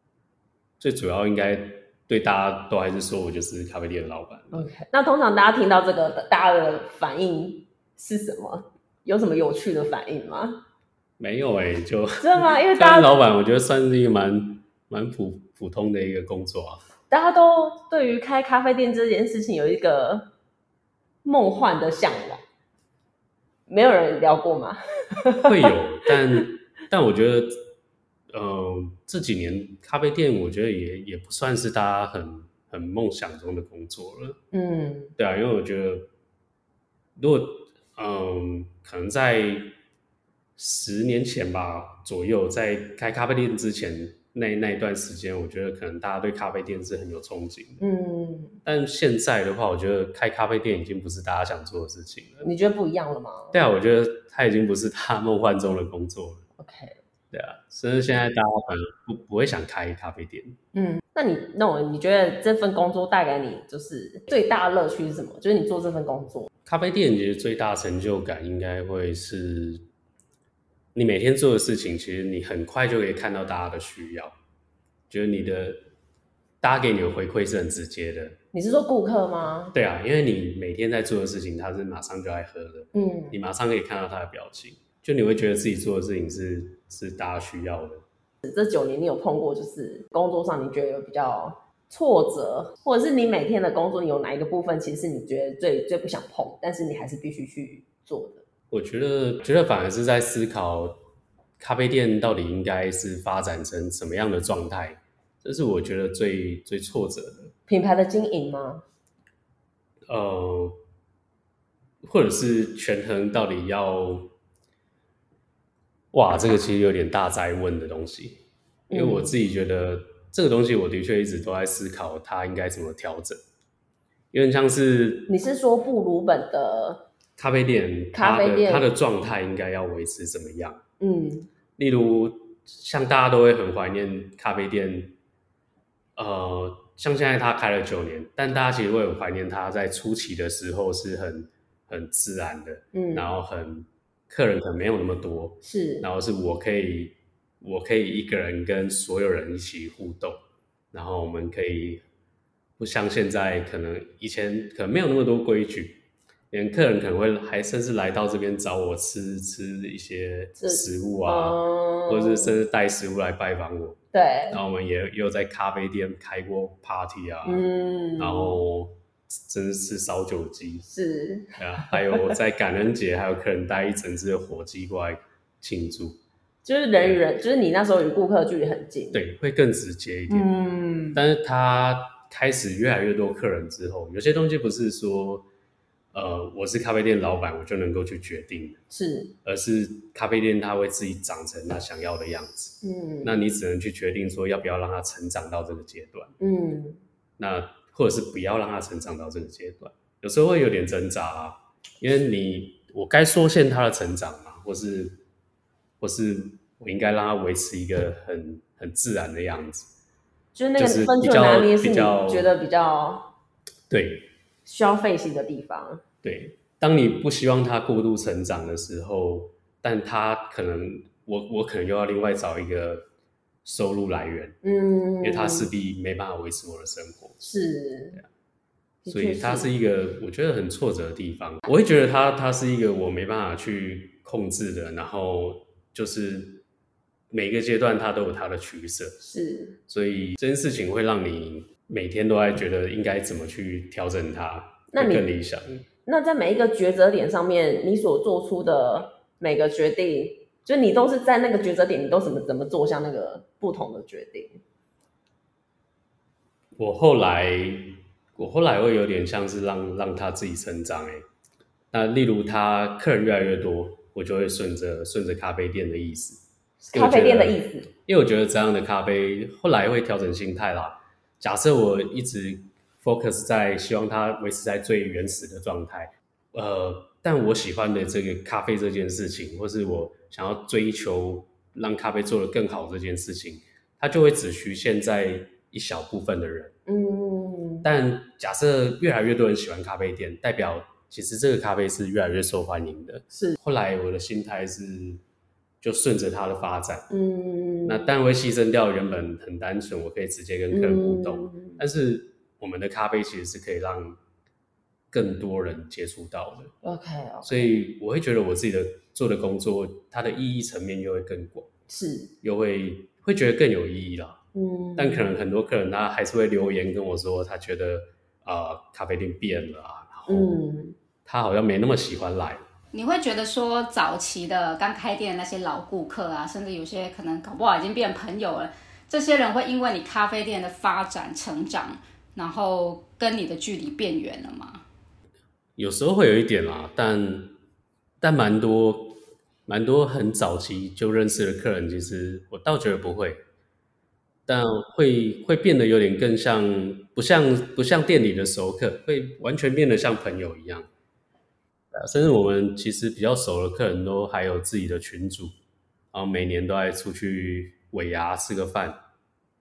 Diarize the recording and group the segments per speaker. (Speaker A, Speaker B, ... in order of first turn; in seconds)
Speaker A: 0.8-4.7, 11.2-16.8, 25.4-27.6, 28.3-34.4, 35.2-36.1, 37.2-39.8, 40.6-47.8, 48.6-52.5, 53.5-56.5, 57.3-60.6, 66.7-69.9, 71.0-74.3, 75.1-75.8, 76.6-78.4, 79.7-88.0, 98.7-101.0, 101.6-107.5, 110.1-110.8, 112.0-114.3, 116.1-123.4, 124.3-125.3, 127.4-130.8, 131.8-135.2, 136.2-150.4, 150.9-152.0, 152.8-164.0, 164.5-167.7, 168.2-170.9, 171.6-176.2, 177.0-177.2, 179.1-180.5, 181.2-185.5, 186.1-188.8, 189.4-196.3, 197.4-205.2, 206.0-209.9, 210.8-212.5, 213.9-214.3, 216.2-223.1, 223.6-224.6, 225.2-227.4, 229.1-236.6, 237.3-239.2, 239.9-245.8, 256.8-261.3, 261.9-266.4, 266.9-286.8, 287.8-295.2, 295.8-297.1, 297.9-304.2, 305.1-306.7, 307.4-311.7, 312.4-314.4, 315.0-320.6, 321.3-322.6, 335.8-337.6, 338.2-343.4, 344.5-350.9, 351.9-355.6, 356.1-359.0
Speaker B: 4.5-10.6, 12.2-13.2, 17.1-20.3, 21.2-22.4, 23.7-25.7, 34.5-35.1, 47.8-48.6, 52.4-53.6, 56.6-57.0, 60.7-66.5, 78.5-79.8, 82.9-83.3, 88.4-98.4, 107.7-108.8, 118.9-119.4, 125.3-127.0, 128.1-128.9, 131.0-131.5, 142.9-143.3, 145.6-146.1, 160.6-162.6, 164.1-164.6, 167.4-168.6, 170.9-172.3, 176.7-179.2, 180.3-181.2, 188.9-189.3, 192.8-193.4, 196.4-197.0, 210.6-213.3, 214.7-216.0, 224.6-225.7, 227.4-228.2, 229.0-229.7, 239.2-239.8, 244.9-245.3, 246.1-254.6, 266.8-267.9, 286.9-287.9, 293.3-293.6, 297.1-298.1, 300.7-301.8, 306.8-307.7, 311.9-312.3, 314.6-315.3, 320.3-321.0
Speaker C: 322.9-334.8